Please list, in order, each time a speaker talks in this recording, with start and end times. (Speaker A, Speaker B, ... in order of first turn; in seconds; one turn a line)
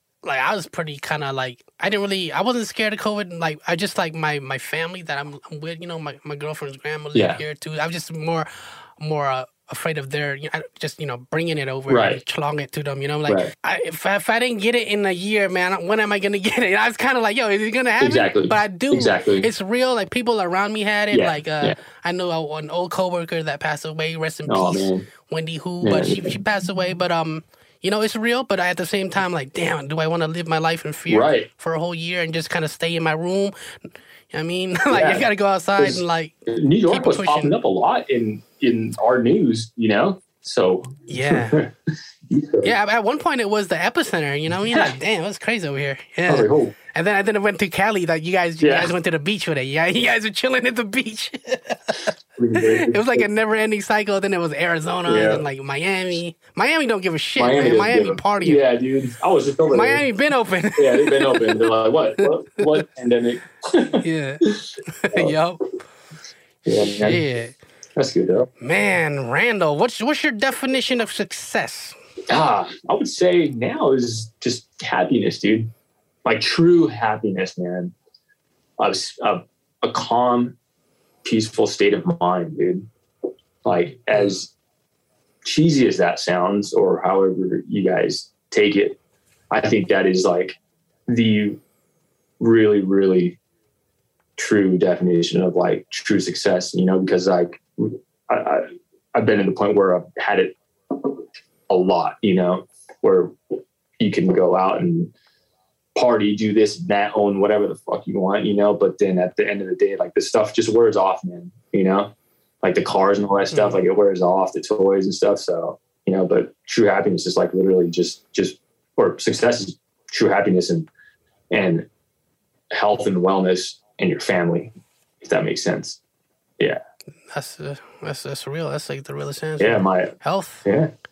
Speaker A: 0.2-33.5
Speaker B: 7.1-7.4
Speaker B: 11.9-12.2
Speaker B: 13.3-13.5
Speaker B: 18.0-19.5
Speaker B: 21.1-21.8
Speaker B: 24.4-25.1
Speaker B: 25.8-26.3
Speaker B: 31.1-31.5
Speaker A: 34.3-36.4
Speaker B: 34.9-35.3
Speaker B: 35.8-41.7
Speaker A: 36.9-37.5
Speaker A: 41.1-41.6
Speaker B: 42.3-42.7
Speaker A: 42.6-58.6
Speaker B: 46.3-46.7
Speaker B: 48.6-48.9
Speaker B: 52.4-53.3
Speaker B: 55.1-55.4
Speaker B: 57.4-60.1
Speaker A: 59.7-61.7
Speaker B: 60.8-65.3
Speaker A: 64.0-65.7
Speaker B: 66.7-67.2
Speaker A: 66.8-67.5
Speaker B: 68.0-68.5
Speaker A: 68.6-71.9
Speaker B: 72.3-75.7
Speaker B: 76.2-77.9
Speaker B: 78.8-80.5
Speaker B: 81.2-82.9
Speaker B: 83.6-84.5
Speaker B: 85.4-89.0
Speaker B: 89.5-91.6
Speaker B: 92.4-93.4
Speaker B: 94.4-103.3
Speaker B: 104.0-105.1
Speaker B: 105.9-120.9
Speaker A: 113.5-113.8
Speaker B: 121.5-121.9
Speaker B: 122.7-126.0
Speaker A: 127.3-130.7
Speaker B: 129.6-130.1
Speaker B: 130.6-130.9